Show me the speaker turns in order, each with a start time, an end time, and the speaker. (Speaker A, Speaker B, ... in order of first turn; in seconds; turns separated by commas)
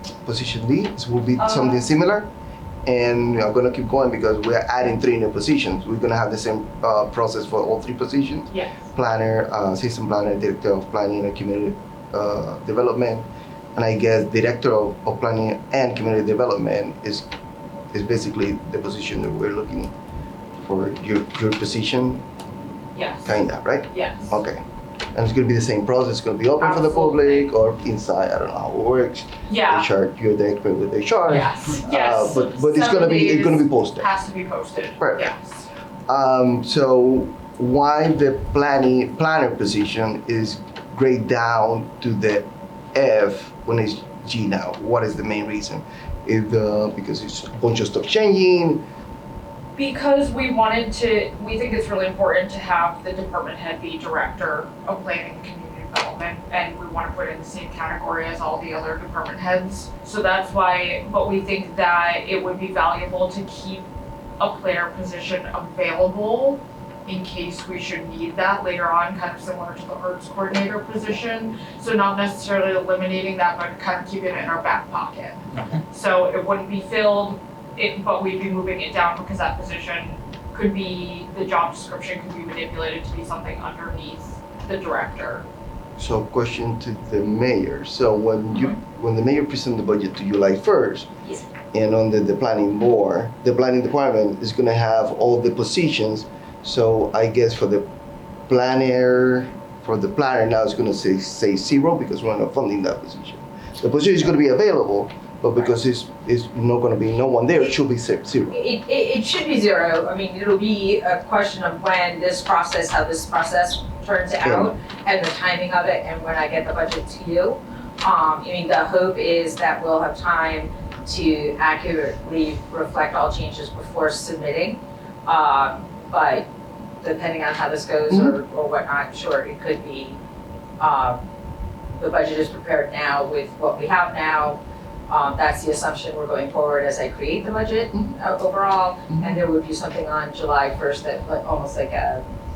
Speaker A: 0.2-2.3, Speaker B: 1.4-1.8, Speaker A: 2.9-17.3, Speaker B: 8.5-8.8, Speaker A: 17.9-19.9, Speaker A: 20.6-22.2, Speaker B: 22.9-24.3, Speaker A: 23.2-34.1, Speaker B: 26.6-27.5, Speaker B: 29.5-29.9, Speaker B: 31.3-35.6, Speaker A: 35.0-35.3, Speaker A: 36.1-48.8, Speaker B: 49.8-63.9, Speaker B: 64.4-85.5, Speaker A: 86.0-91.1, Speaker A: 91.7-97.9, Speaker A: 98.5-108.6, Speaker C: 108.5-126.5, Speaker A: 114.4-114.7, Speaker C: 127.0-130.2, Speaker A: 128.1-128.4, Speaker C: 130.8-131.2, Speaker C: 131.9-142.2